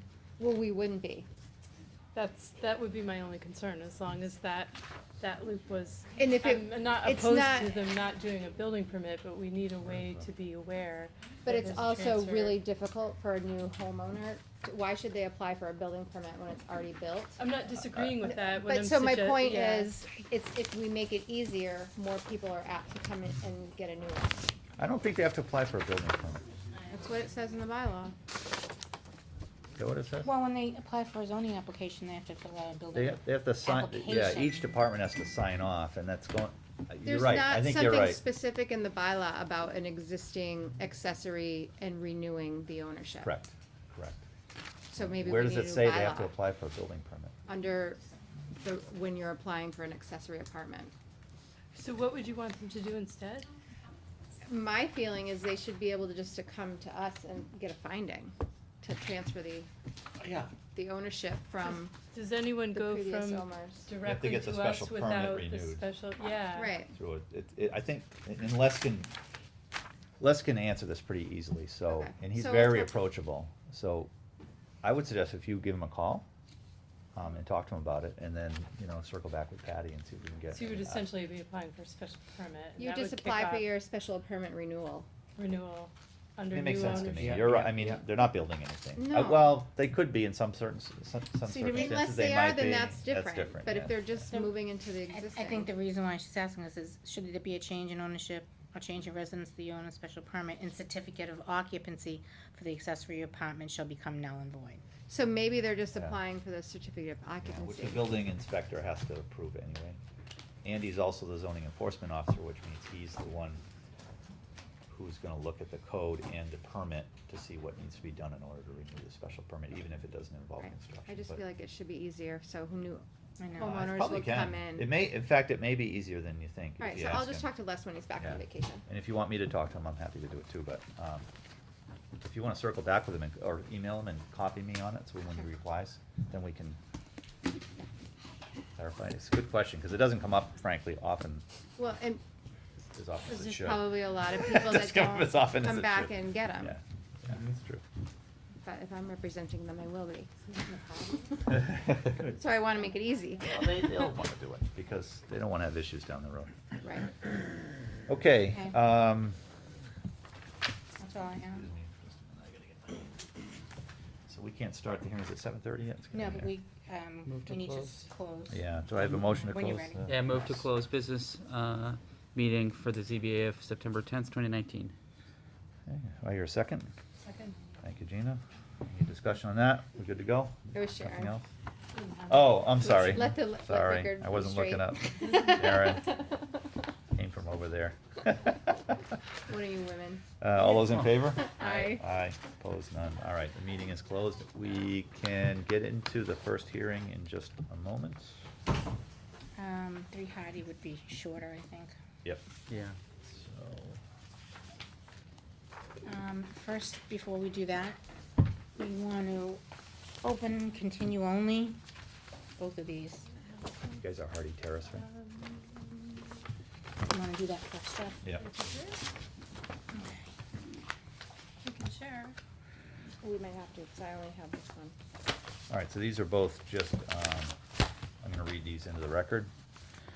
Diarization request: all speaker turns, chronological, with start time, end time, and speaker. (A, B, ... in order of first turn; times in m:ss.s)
0:00.4-0:01.2 A
0:02.1-0:12.6 B
0:06.2-0:07.7 A
0:09.8-0:10.3 C
0:11.4-0:17.4 A
0:17.4-0:20.0 B
0:18.2-0:24.5 A
0:24.8-0:26.4 C
0:26.9-0:28.1 A
0:29.8-0:30.3 C
0:30.2-0:34.7 D
0:32.9-0:38.2 C
0:37.0-0:43.3 A
0:43.2-0:44.2 C
0:44.9-0:46.3 A
0:45.0-0:47.3 C
0:47.5-0:48.0 A
0:48.6-0:50.9 A
0:51.7-0:53.5 B
0:54.4-0:59.7 A
1:00.2-1:00.5 C
1:00.6-1:01.9 A
1:01.7-1:06.8 B
1:02.7-1:03.9 A
1:04.0-1:05.8 C
1:06.5-1:06.9 A
1:06.9-1:09.1 C
1:10.2-1:14.1 C
1:11.9-1:12.9 A
1:14.8-1:16.2 C
1:17.1-1:21.1 C
1:20.5-1:23.7 B
1:22.8-1:25.1 A
1:25.4-1:27.4 B
1:26.5-1:34.3 C
1:26.8-1:28.0 E
1:29.0-1:29.6 A
1:31.5-1:35.7 A
1:35.1-1:44.8 D
1:45.1-1:48.2 A
1:47.4-1:50.0 C
1:50.6-1:53.6 C
1:54.9-2:01.4 C
2:00.6-2:04.9 A
2:03.4-2:04.0 D
2:03.7-2:07.4 C
2:06.8-2:08.8 A
2:08.2-2:11.3 C
2:12.2-2:16.8 C
2:18.8-2:21.4 C
2:21.8-2:22.2 A
2:22.9-2:27.8 C
2:23.3-2:23.6 B
2:23.5-2:26.7 A
2:28.6-2:31.7 A
2:31.7-2:32.1 C
2:32.3-2:33.4 A
2:33.4-2:36.6 C
2:36.8-2:37.1 A
2:38.1-2:39.4 C
2:41.0-2:41.7 D
2:41.5-2:43.1 C
2:44.3-2:46.5 C
2:46.1-2:50.0 D
2:47.2-2:48.0 E
2:48.5-2:50.6 C
2:50.1-2:54.9 E
2:55.9-2:56.9 C
2:57.2-2:57.6 B
2:57.8-3:01.5 C
3:00.7-3:01.3 A
3:02.0-3:02.6 B
3:02.3-3:06.2 C
3:02.8-3:06.3 A
3:07.1-3:09.1 C
3:09.5-3:10.2 A
3:10.4-3:18.4 C
3:10.8-3:12.0 A
3:19.6-3:21.9 D
3:22.7-3:23.0 E
3:23.2-3:24.0 C
3:26.0-3:28.0 D
3:28.8-3:29.6 D
3:30.2-3:31.8 D
3:32.6-3:33.2 D
3:34.0-3:35.1 C
3:34.9-3:36.1 B
3:37.0-3:38.2 D
3:38.4-3:39.0 B
3:39.9-3:40.2 D
3:41.6-3:42.4 B
3:43.2-3:44.9 A
3:45.7-3:47.5 C
3:48.2-3:49.5 C